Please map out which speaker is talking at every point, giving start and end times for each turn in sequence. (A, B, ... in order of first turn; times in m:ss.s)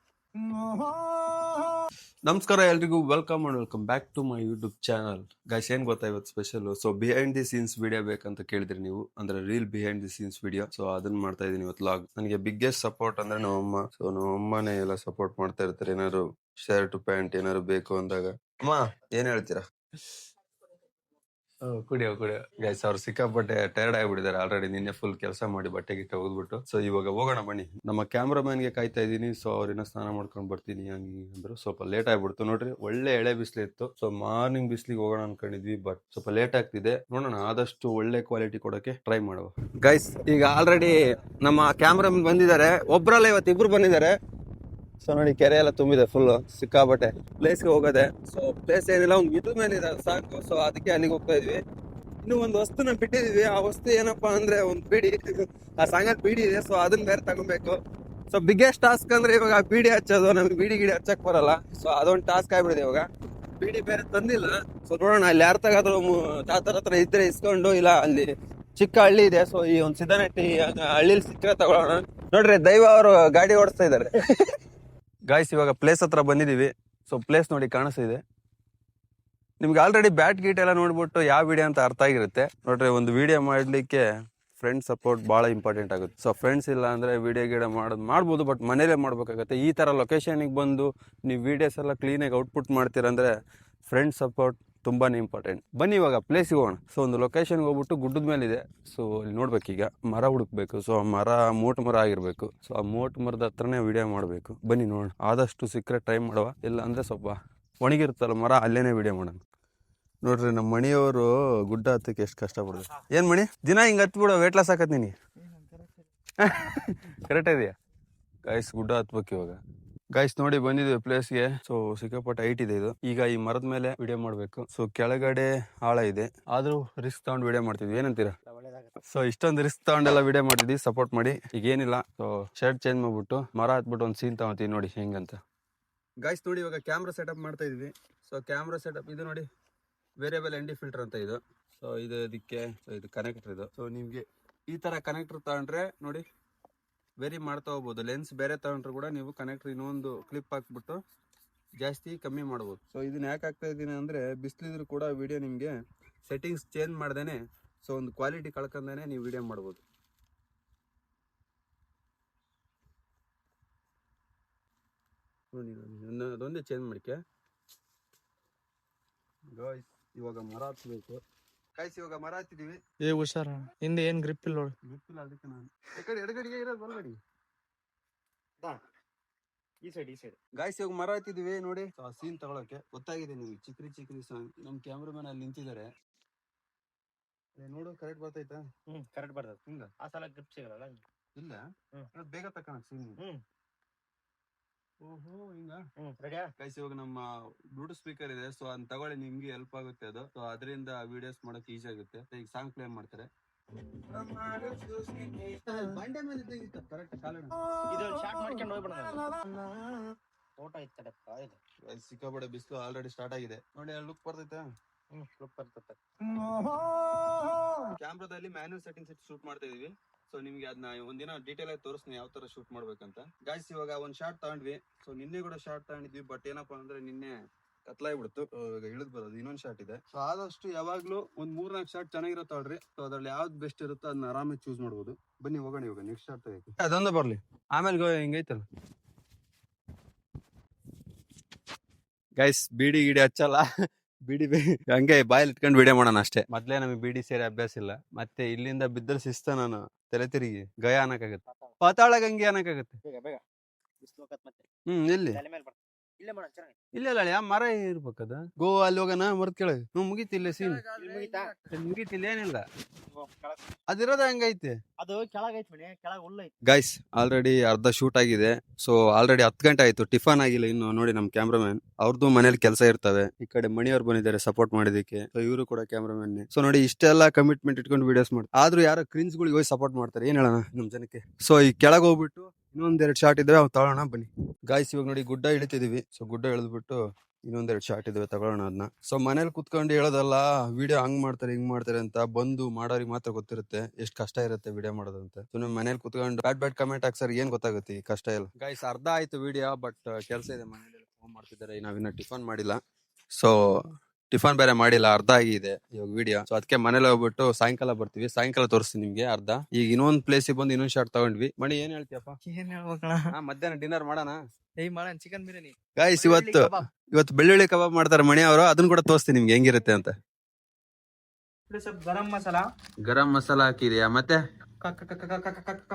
0:00.4-0:01.7 A
0:02.3-0:19.6 A
0:21.7-0:44.2 A
0:45.0-0:51.6 A
0:52.2-0:55.2 A
0:55.8-0:57.8 A
0:58.3-1:03.1 A
1:03.6-1:14.1 A
1:15.3-1:18.2 A
1:19.6-1:24.0 A
1:24.6-1:33.3 A
1:33.9-1:49.4 A
1:50.2-1:55.1 A
1:56.4-1:57.7 A
1:58.5-1:59.6 A
2:00.2-2:08.3 A
2:08.5-2:09.0 B
2:09.1-2:15.4 A
2:16.2-2:19.4 A
2:20.2-2:26.2 A
2:27.2-2:31.0 A
2:31.8-2:35.8 A
2:36.3-2:39.8 A
2:45.5-2:47.2 A
2:49.5-2:51.2 A
2:51.8-2:52.8 A
2:53.1-2:54.7 C
2:54.8-2:57.2 A
2:59.8-3:00.4 B
3:00.6-3:05.9 A
3:07.6-3:08.6 A
3:08.9-3:11.0 B
3:12.1-3:13.2 A
3:15.0-3:15.8 A
3:16.0-3:16.5 B
3:16.6-3:17.2 A
3:17.8-3:23.3 A
3:24.0-3:28.2 A
3:27.9-3:29.2 B
3:29.3-3:30.0 A
3:30.6-3:31.6 B
3:31.9-3:34.6 A
3:35.1-3:36.0 B
3:36.3-3:37.1 A
3:38.0-3:47.4 A
3:47.9-3:58.6 A
4:02.4-4:03.6 A
4:04.3-4:13.0 A
4:13.0-4:13.4 B
4:14.0-4:14.6 B
4:14.9-4:15.4 A
4:15.3-4:16.8 B
4:17.0-4:20.9 A
4:20.6-4:21.5 B
4:21.7-4:22.6 A
4:23.1-4:23.6 B
4:23.9-4:24.8 A
4:25.0-4:26.5 B
4:26.6-5:02.8 A
5:04.3-5:12.4 A
5:12.5-5:13.3 C
5:13.3-5:14.4 A
5:14.8-5:16.8 C
5:16.0-5:20.1 A
5:21.7-5:22.6 C
5:23.0-5:24.4 A